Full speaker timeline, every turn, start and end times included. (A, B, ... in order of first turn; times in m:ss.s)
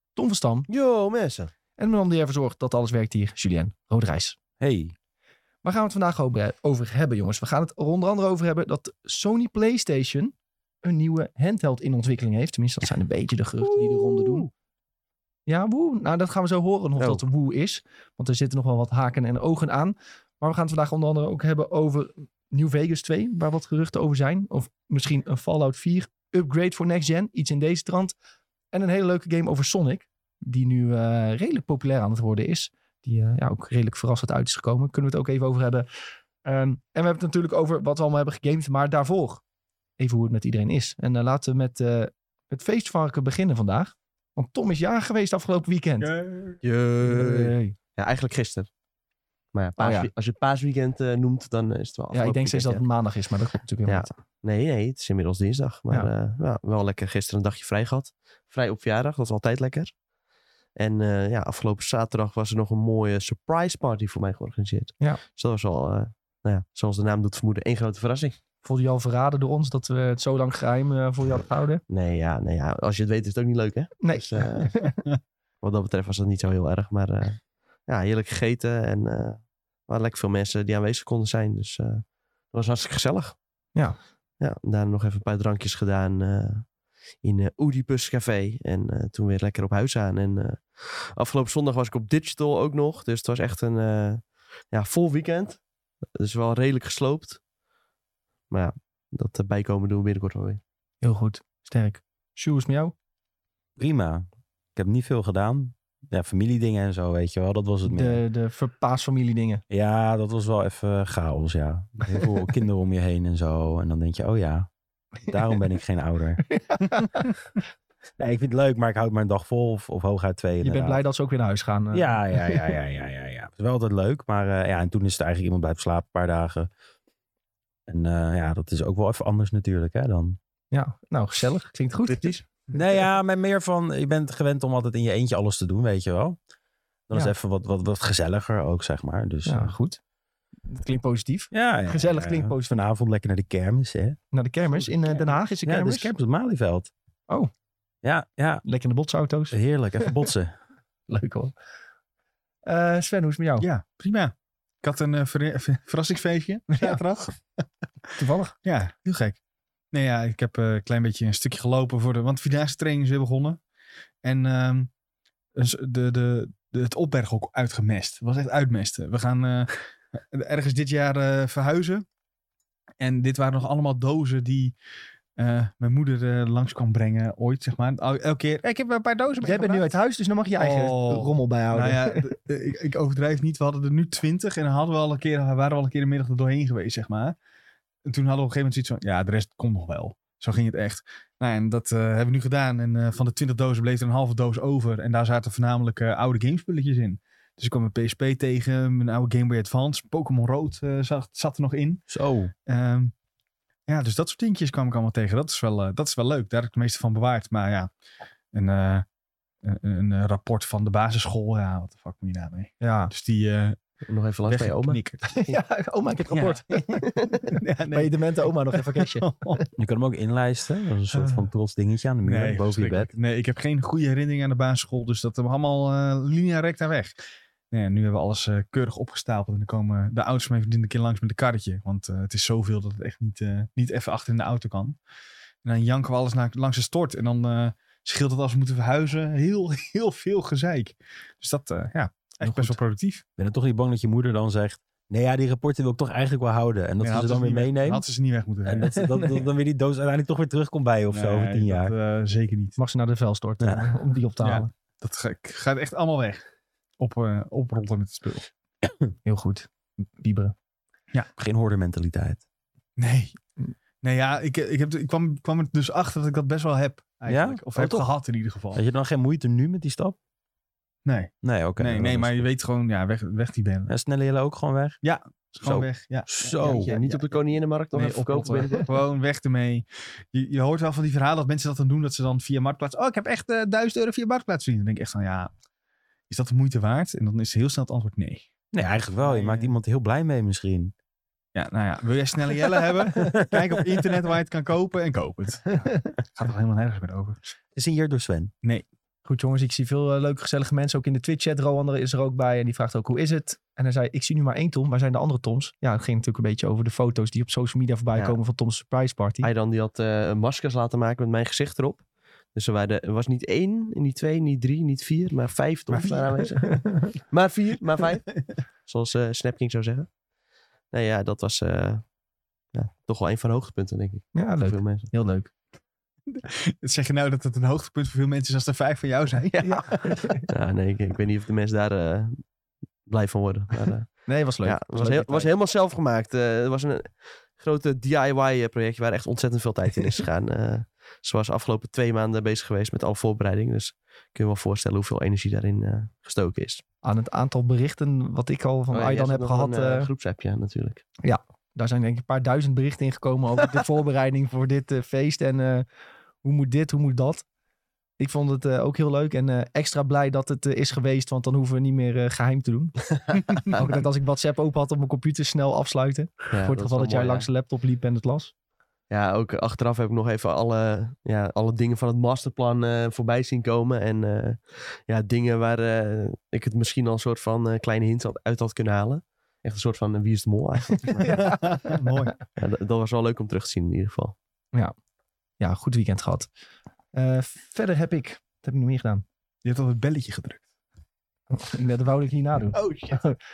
0:00.2-0:00.7 A
0:00.7-0:01.5 B
0:01.8-0:04.4 A
0:04.6-0:04.9 C
0:05.6-0:14.5 A
0:13.7-0:14.3 B
0:15.5-0:28.2 A
0:28.7-0:35.9 A
0:36.4-0:39.4 A
0:40.0-0:46.1 A
0:46.0-0:46.6 D
0:46.6-0:48.7 B
0:47.0-0:47.8 A
0:49.5-0:52.8 B
0:49.8-0:50.1 A
0:52.1-0:54.1 A
0:53.9-1:00.0 B
1:00.8-1:08.4 B
1:08.6-1:11.8 A
1:11.9-1:14.8 B
1:14.0-1:15.0 A
1:15.6-1:23.4 B
1:24.4-1:35.6 B
1:36.2-1:37.4 B
1:38.5-1:40.6 B
1:41.0-1:42.9 A
1:43.8-1:48.2 C
1:47.8-1:49.6 A
1:49.7-1:54.7 C
1:55.2-1:56.4 C
1:56.6-1:57.3 A
1:58.2-2:01.0 C
2:00.6-2:02.7 A
2:01.9-2:06.7 C
2:07.9-2:10.4 C
2:10.7-2:12.4 A
2:12.1-2:12.4 B
2:12.7-2:16.4 C
2:17.1-2:19.8 C
2:19.5-2:20.0 A
2:20.7-2:22.8 A
2:21.5-2:24.2 C
2:24.3-2:26.1 A
2:25.7-2:26.9 C
2:28.0-2:28.6 C
2:28.6-2:30.1 A
2:29.5-2:30.5 C
2:31.1-2:31.5 A
2:32.6-2:33.7 A
2:33.6-2:37.6 D
2:36.7-2:37.0 A
2:38.2-2:38.6 A
2:38.6-2:39.4 D
2:39.9-2:43.6 D
2:44.2-2:44.9 D
2:45.6-2:52.0 D
2:53.0-2:54.8 D
2:55.4-3:00.0 D
2:59.4-3:02.3 A
3:00.6-3:07.4 D
3:08.0-3:22.1 D
3:22.1-3:22.5 C
3:22.7-3:23.1 D
3:23.9-3:27.9 D
3:28.5-3:29.0 D
3:29.6-3:33.8 D
3:32.8-3:33.1 A
3:34.1-3:35.0 B
3:34.5-3:35.2 D
3:35.3-3:39.7 A
3:36.3-3:38.2 D
3:38.7-3:39.6 D
3:39.8-3:43.1 C
3:41.1-3:41.4 D
3:42.2-3:47.2 D
3:47.7-3:55.0 D
3:55.6-4:03.2 D
4:02.4-4:02.8 A
4:03.4-4:08.0 C
4:07.0-4:09.4 D
4:08.6-4:11.9 C
4:11.1-4:12.8 D
4:12.8-4:14.7 A
4:13.6-4:13.9 C
4:14.4-4:16.4 D
4:17.0-4:18.5 D
4:19.2-4:20.5 A
4:21.4-4:22.4 C
4:23.0-4:23.4 D
4:24.0-4:28.8 D
4:27.3-4:28.1 C
4:28.7-4:30.2 C
4:31.0-4:33.9 D
4:31.4-4:32.5 C
4:33.9-4:35.0 C
4:35.0-4:36.8 D
4:35.6-4:36.9 C
4:36.5-4:38.9 B
4:37.0-4:37.2 A
4:37.9-4:45.5 D
4:46.3-4:48.5 D
4:48.7-4:50.9 C
4:49.2-4:49.8 D
4:51.6-4:57.4 D
4:57.8-4:58.5 C
4:59.2-5:09.5 A
5:09.4-5:20.1 B
5:15.9-5:16.8 D
5:20.9-5:22.1 B
5:22.7-5:25.1 B
5:24.3-5:25.5 A
5:26.3-5:30.2 D
5:29.6-5:30.5 A
5:30.5-5:32.5 B
5:33.1-5:46.8 B
5:34.3-5:35.5 A
5:47.0-5:50.1 A
5:48.9-5:51.0 B
5:51.2-5:55.9 A
5:56.4-5:57.5 A
5:58.2-6:08.5 A
6:03.7-6:04.0 B
6:06.5-6:07.5 B
6:09.1-6:21.6 B
6:21.2-6:22.1 A
6:21.2-6:22.4 D
6:22.6-6:24.4 B
6:25.6-6:26.5 A
6:27.1-6:29.2 A
6:29.6-6:30.7 D
6:31.5-6:33.4 A
6:32.7-6:33.4 D